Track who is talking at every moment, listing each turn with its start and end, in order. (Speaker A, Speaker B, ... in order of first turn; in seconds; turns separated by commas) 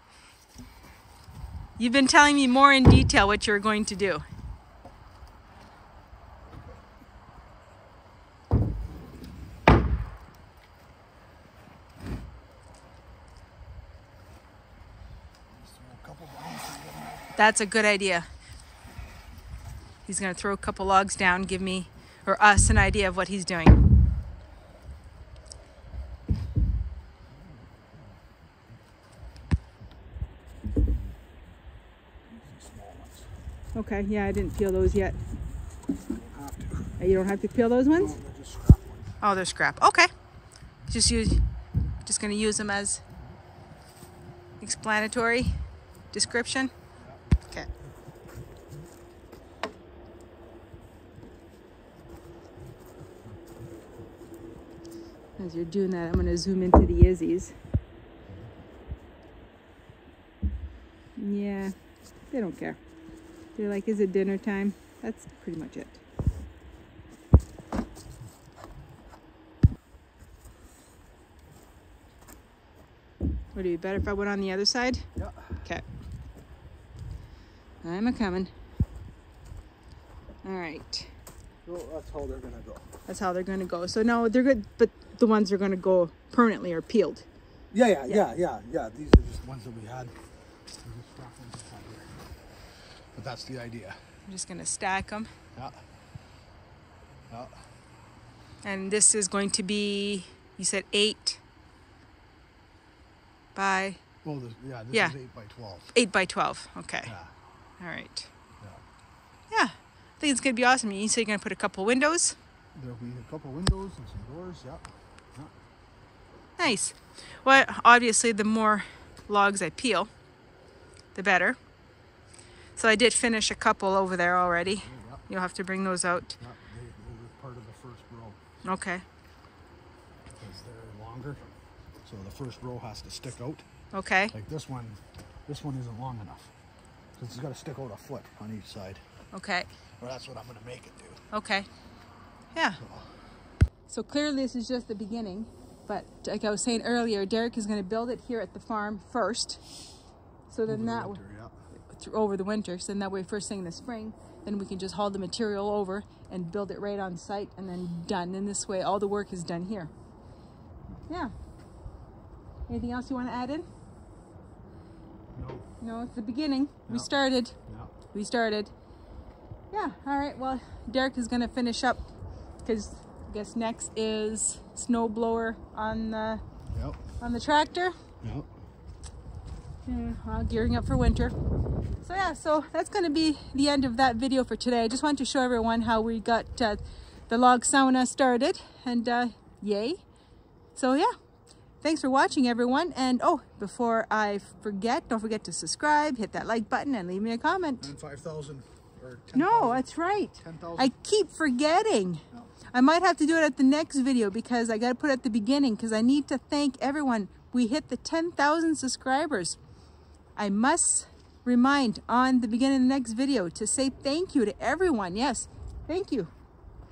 Speaker A: 1.8-4.2, Speaker B: 15.5-17.3, Speaker A: 17.3-18.3, Speaker A: 20.1-23.8, Speaker B: 32.3-33.3, Speaker A: 33.7-35.2, Speaker B: 36.1-37.0, Speaker A: 37.0-38.2, Speaker B: 37.9-39.1, Speaker A: 39.2-40.1, Speaker A: 40.9-41.4, Speaker A: 42.0-43.0, Speaker A: 44.6-45.5, Speaker A: 46.1-46.7, Speaker B: 47.0-47.2, Speaker A: 55.4-57.5, Speaker A: 61.2-61.7, Speaker A: 62.3-62.8, Speaker A: 63.5-66.0, Speaker A: 73.5-75.0, Speaker B: 75.2-75.6, Speaker A: 77.8-78.5, Speaker A: 80.4-81.1, Speaker B: 81.6-82.8, Speaker A: 83.1-87.3, Speaker B: 87.7-90.1, Speaker B: 90.8-92.2, Speaker B: 93.1-94.0, Speaker A: 94.3-95.3, Speaker B: 95.5-95.8, Speaker B: 97.3-97.6, Speaker A: 98.6-101.4, Speaker A: 103.5-104.0, Speaker B: 104.2-105.9, Speaker A: 105.9-107.1, Speaker B: 107.0-107.3, Speaker A: 107.8-108.3, Speaker A: 109.5-112.3, Speaker B: 112.7-115.5, Speaker A: 116.6-120.1, Speaker A: 121.1-121.6, Speaker A: 122.8-126.4, Speaker B: 124.8-125.2, Speaker B: 126.4-128.4, Speaker A: 128.6-129.0, Speaker B: 130.3-131.4, Speaker B: 132.0-133.7, Speaker A: 133.9-134.3, Speaker B: 134.3-136.5, Speaker B: 137.2-139.0, Speaker A: 139.3-139.8, Speaker B: 140.0-141.2, Speaker A: 141.3-141.7, Speaker A: 142.5-142.8, Speaker B: 142.8-143.2, Speaker A: 143.9-149.6, Speaker A: 150.5-151.2, Speaker B: 150.7-151.6, Speaker A: 151.9-159.9, Speaker A: 161.1-161.3, Speaker A: 162.7-163.7, Speaker B: 165.3-165.7, Speaker A: 165.8-167.6, Speaker B: 167.7-167.9, Speaker A: 168.1-168.7, Speaker A: 169.7-172.0, Speaker A: 172.6-176.4, Speaker B: 176.7-177.0, Speaker A: 177.2-178.0, Speaker B: 178.2-178.5, Speaker A: 179.8-181.3, Speaker A: 182.0-190.0, Speaker A: 190.7-191.1, Speaker A: 191.8-197.9, Speaker B: 197.8-199.8, Speaker A: 199.3-209.6, Speaker B: 200.4-200.9, Speaker A: 210.3-216.3